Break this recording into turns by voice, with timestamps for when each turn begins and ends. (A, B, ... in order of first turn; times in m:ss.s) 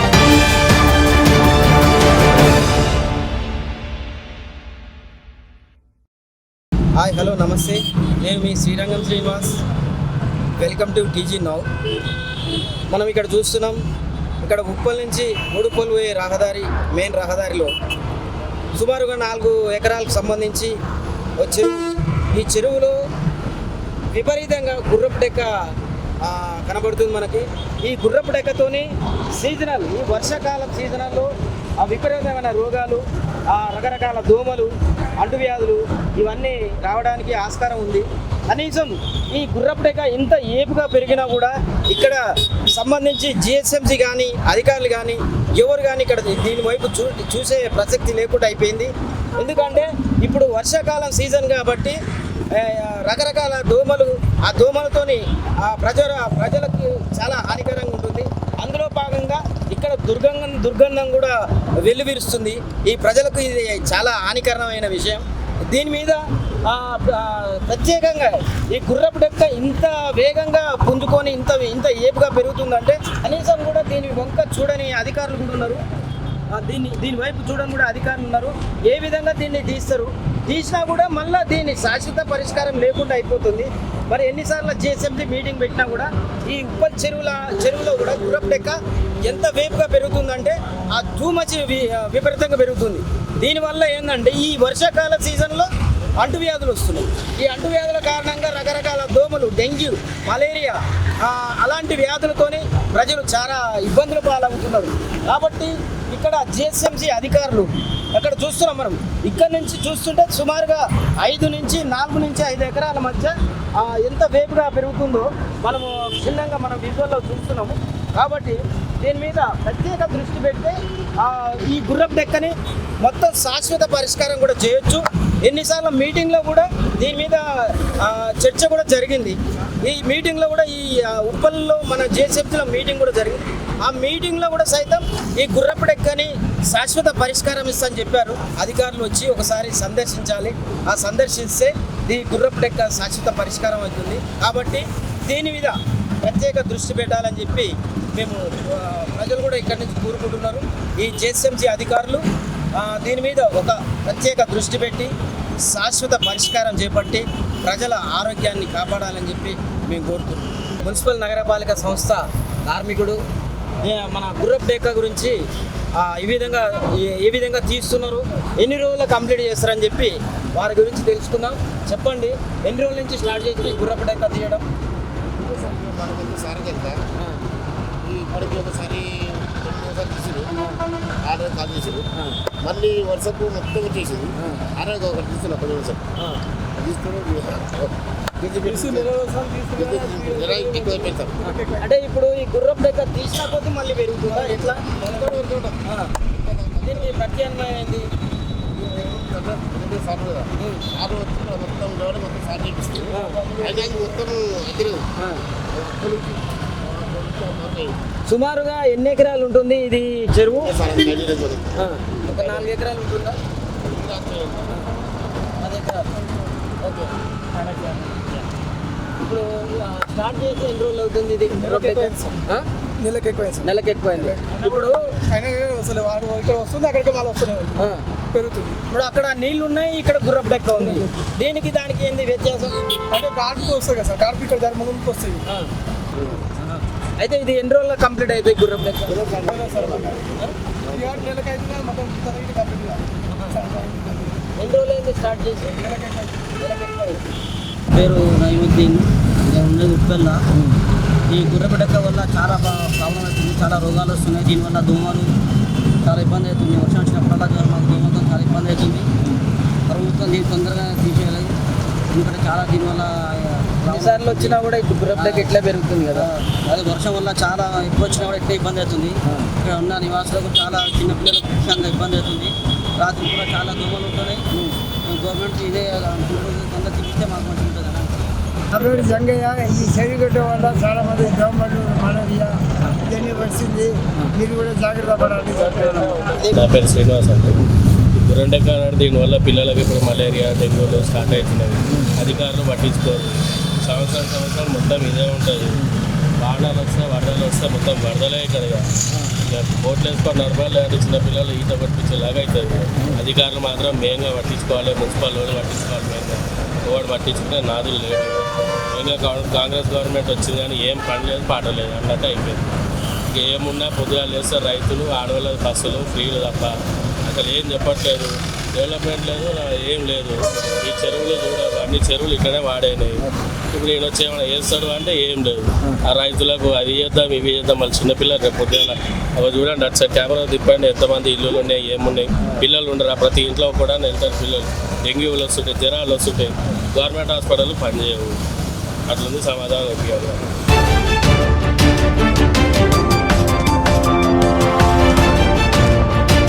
0:07.0-0:09.6 A
0:10.6-0:11.7 A
0:12.9-0:13.8 A
0:14.4-0:17.7 A
0:18.7-0:20.7 A
0:21.4-0:22.9 A
0:24.1-0:25.5 A
0:26.2-0:52.0 A
0:52.5-1:15.8 A
1:16.5-2:32.2 A
2:32.8-2:35.1 A
2:35.7-2:43.2 A
2:43.8-2:45.4 A
2:46.0-2:54.6 A
2:55.4-2:57.0 B
2:58.0-3:00.5 B
3:01.2-3:02.1 B
3:02.6-3:06.1 B
3:06.8-3:09.2 B
3:08.6-3:11.8 C
3:09.8-3:11.4 B
3:11.4-3:16.1 A
3:15.1-3:17.1 B
3:16.8-3:18.1 A
3:18.7-3:25.1 B
3:20.6-3:20.8 A
3:23.1-3:23.4 A
3:25.7-3:28.0 B
3:28.3-3:30.7 A
3:30.6-3:31.8 B
3:31.8-3:33.4 A
3:33.8-3:34.8 B
3:35.6-3:36.1 A
3:36.8-3:37.1 A
3:37.6-3:37.9 C
3:39.2-3:42.6 A
3:41.5-3:42.4 C
3:43.0-3:48.8 C
3:43.6-3:44.3 D
3:43.9-3:45.1 A
3:47.8-3:48.0 D
3:48.9-3:52.9 A
3:50.8-3:51.1 C
3:53.1-3:55.4 C
3:56.6-3:59.5 A
3:59.1-4:00.3 B
3:59.4-4:00.2 C
4:00.8-4:01.3 B
4:00.9-4:04.4 C
4:04.6-4:05.8 A
4:05.6-4:06.5 C
4:06.6-4:07.2 A
4:07.9-4:10.7 D
4:11.3-4:15.3 D
4:16.0-4:19.2 D
4:19.9-4:21.5 D
4:22.1-4:38.3 D
4:23.8-4:26.3 A
4:38.7-4:46.0 E
4:45.5-4:47.6 F
4:48.1-4:55.8 F
4:56.4-4:58.9 F
4:59.4-5:12.7 F
5:13.3-5:38.4 F
5:39.1-5:40.5 F